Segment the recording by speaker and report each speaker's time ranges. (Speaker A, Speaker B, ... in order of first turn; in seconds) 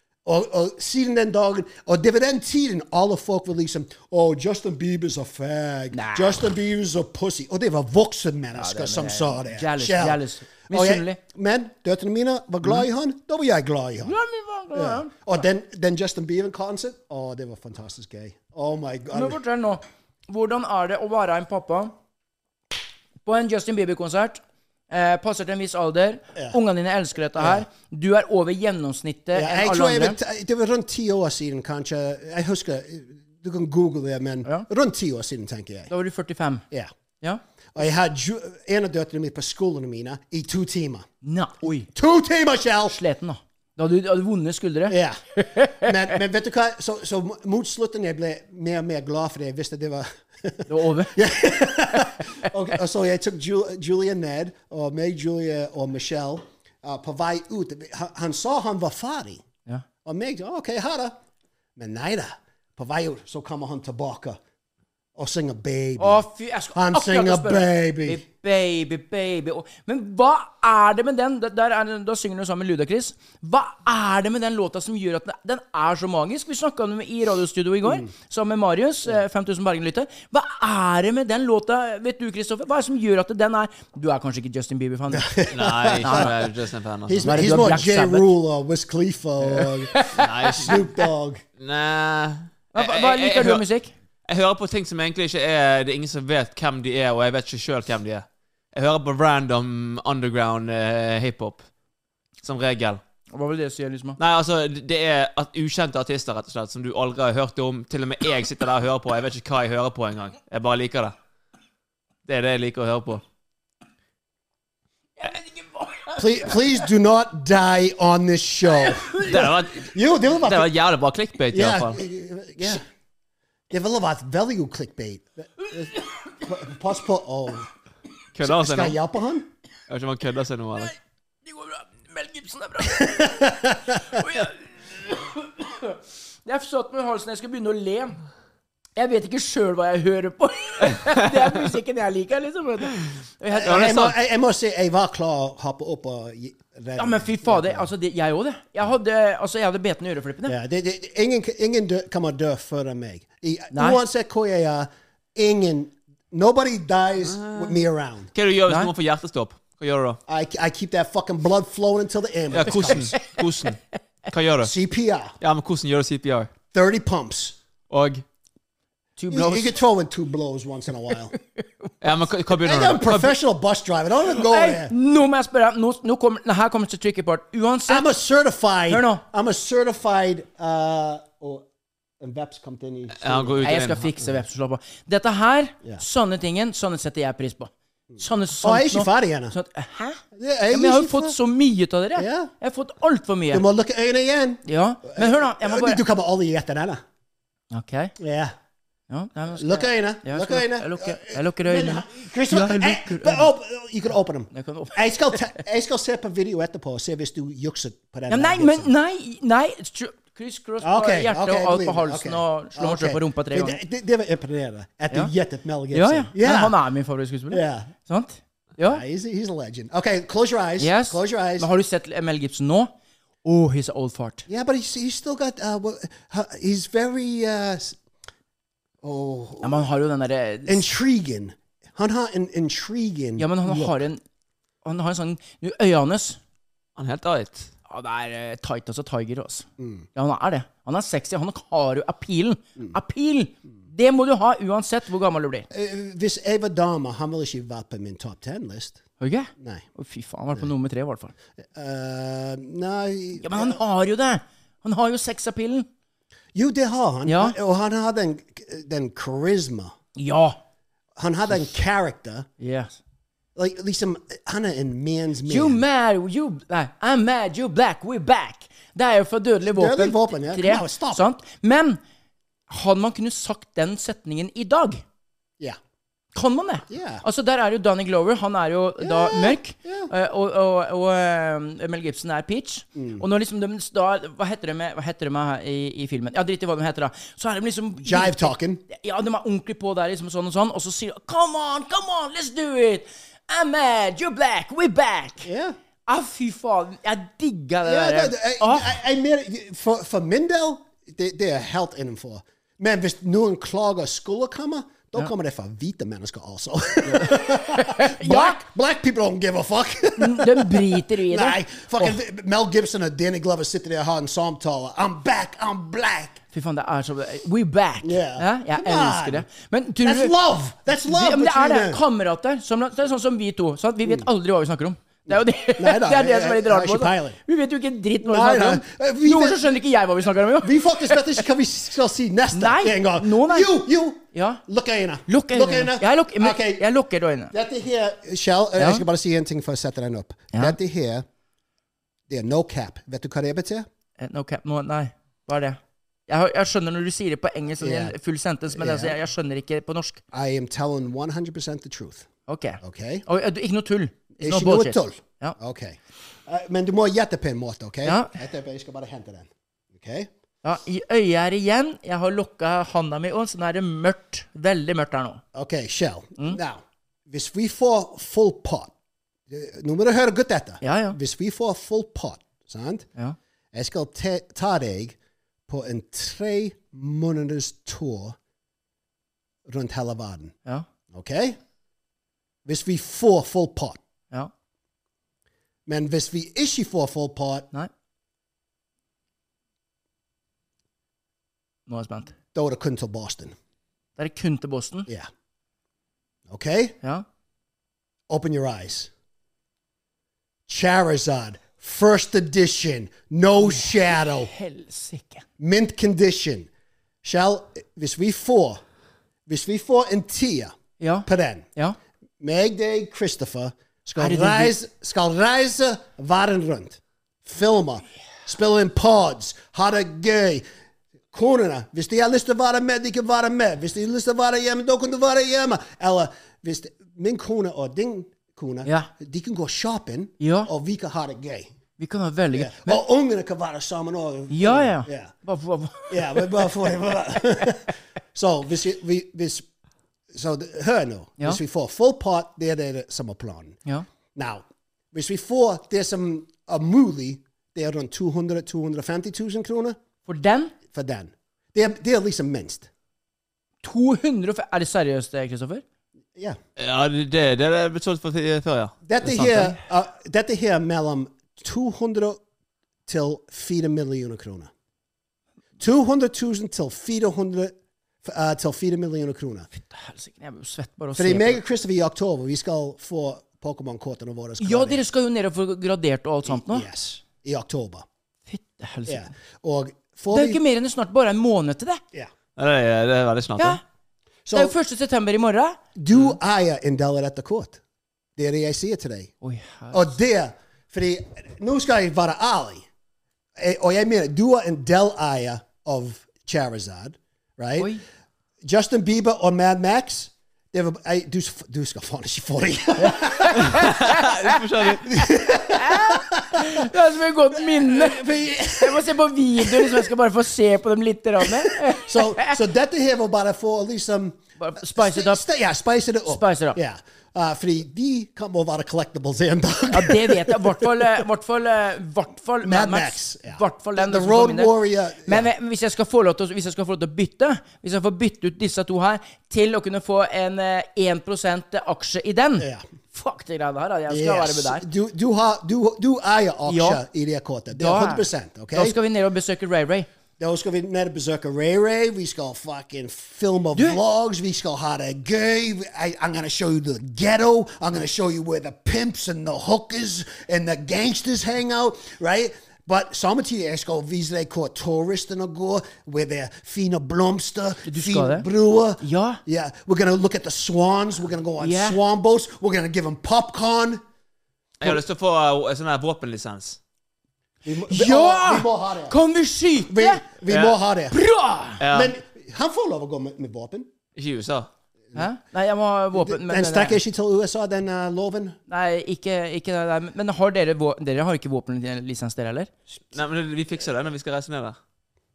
Speaker A: 0.2-14.2, 14.7-19.4, 27.4-27.7, 29.3-35.9, 37.8-41.1, 41.9-43.0, 44.9-59.4, 60.0-61.2, 61.8-64.4, 65.2-68.2, 77.8-78.1, 85.1-86.4, 87.1-91.4, 116.2-120.7, 121.5-122.8, 123.7-127.7, 128.4-129.5, 133.0-134.0, 143.5-147.9, 150.5-158.3, 160.3-163.2, 164.6-165.3, 166.7-167.6, 169.3-171.3, 172.6-174.9, 177.9-181.7, 182.2-183.7, 188.1-189.6, 190.3-191.4, 192.2-192.5, 193.5-197.0, 198.2-198.6, 199.5-208.9, 210.8-216.8, 217.5-217.9, 218.8-221.7, 224.5-228.0, 229.0-229.9, 230.7-234.0, 239.8-240.1, 245.7-249.0, 249.6-249.9, 251.7-253.8, 256.6-259.9, 261.2-262.5, 263.6-265.8, 269.6-271.3, 276.9-277.2, 279.0-280.1, 282.9-283.2, 288.0-288.8, 295.4-295.8, 297.8-316.4, 318.0-319.5, 320.0-322.0, 325.3-327.4, 328.2-329.7, 330.6-336.9, 337.5-341.3, 342.3-343.9, 347.8-348.1, 348.7-349.2, 350.3-352.3, 352.8-353.2, 354.4-360.3, 365.5-368.9, 369.5-373.1, 373.7-375.2, 375.7-378.4, 379.7-380.6, 381.1-381.6, 382.6-384.0, 385.9-387.7, 392.6-393.6, 396.5-397.0, 398.3-399.1, 400.7-404.5, 405.6-406.7, 407.2-408.8, 409.5-410.7, 411.2-411.7, 412.4-420.6, 421.3-431.7, 432.5-435.3, 436.1-439.7, 440.3-443.8, 444.4-450.0, 450.9-452.9, 459.1-462.4, 463.1-464.7, 465.8-469.7, 471.2-475.0, 476.5-478.1, 479.1-480.6, 484.4-484.8, 486.0-487.8, 488.4-489.3, 489.9-492.9, 493.6-497.9, 498.6-503.8, 505.0-506.9, 507.6-510.1, 511.4-521.2, 522.6-525.5, 532.6-532.9, 534.1-539.0, 540.4-564.0, 567.6-569.2, 569.9-571.2, 571.9-573.9, 576.1-578.6
Speaker B: 5.9-6.5, 8.5-11.2, 14.0-15.4, 19.1-21.9, 23.2-30.2, 35.9-36.6, 41.2-41.9, 42.9-45.9, 50.7-51.2, 66.0-85.3, 86.0-86.3, 87.3-88.3, 89.6-90.2, 92.7-93.9, 103.3-104.2, 115.2-116.5, 118.8-119.4, 131.4-138.2, 139.0-143.9, 147.0-150.6, 153.7-154.0, 169.2-169.8, 171.6-171.8, 174.2-178.1, 178.9-179.2, 183.6-193.7, 194.7-196.0, 197.7-198.2, 199.1-203.5, 204.5-205.5, 208.3-213.8, 215.9-219.0, 220.8-222.9, 223.4-224.5, 229.6-230.8, 233.4-234.2, 234.8-236.4, 237.9-245.7, 249.2-251.3, 253.4-255.9, 257.2-257.6, 260.2-260.6, 262.6-263.0, 265.5-272.0, 272.7-275.0, 276.4-295.5, 296.1-298.9, 307.1-308.6, 310.2-312.2, 316.5-320.3, 321.1-331.4, 332.5-334.6, 335.3-337.5, 338.8-339.1, 344.2-350.2, 352.5-355.6, 358.1-358.3, 360.6-365.4, 370.8-371.2, 391.9-392.3, 394.2-395.1, 403.6-405.4, 411.0-412.0, 414.2-414.7, 428.9-429.1, 430.4-430.7, 432.0-433.0, 434.5-436.7, 450.3-450.7, 453.8-455.8, 459.3-459.7, 469.7-471.6, 474.6-476.9, 478.5-479.3, 480.3-482.0, 484.5-485.8, 489.4-490.1, 503.0-512.6, 514.6-515.4, 516.3-516.8, 519.9-524.7, 525.2-534.9, 536.7-537.0, 537.7-540.1, 557.9-558.5, 559.0-559.4, 561.6-562.0, 567.9-570.2, 571.1-571.8, 575.1-577.0, 578.7-582.7
Speaker C: 85.5-87.4, 90.2-90.8, 91.6-93.7, 94.3-101.7, 102.4-103.0, 104.2-111.1, 112.3-113.2, 119.2-122.0, 128.3-129.0, 129.9-130.9, 143.7-144.2, 157.3-157.8, 158.3-160.2, 162.5-164.7, 165.4-166.5, 167.9-168.2, 172.0-173.3, 183.2-184.1, 237.0-237.7, 456.8-458.9, 482.6-483.8, 503.7-505.0, 564.8-566.8, 570.5-570.8, 571.8-572.1, 574.2-574.7, 583.1-584.8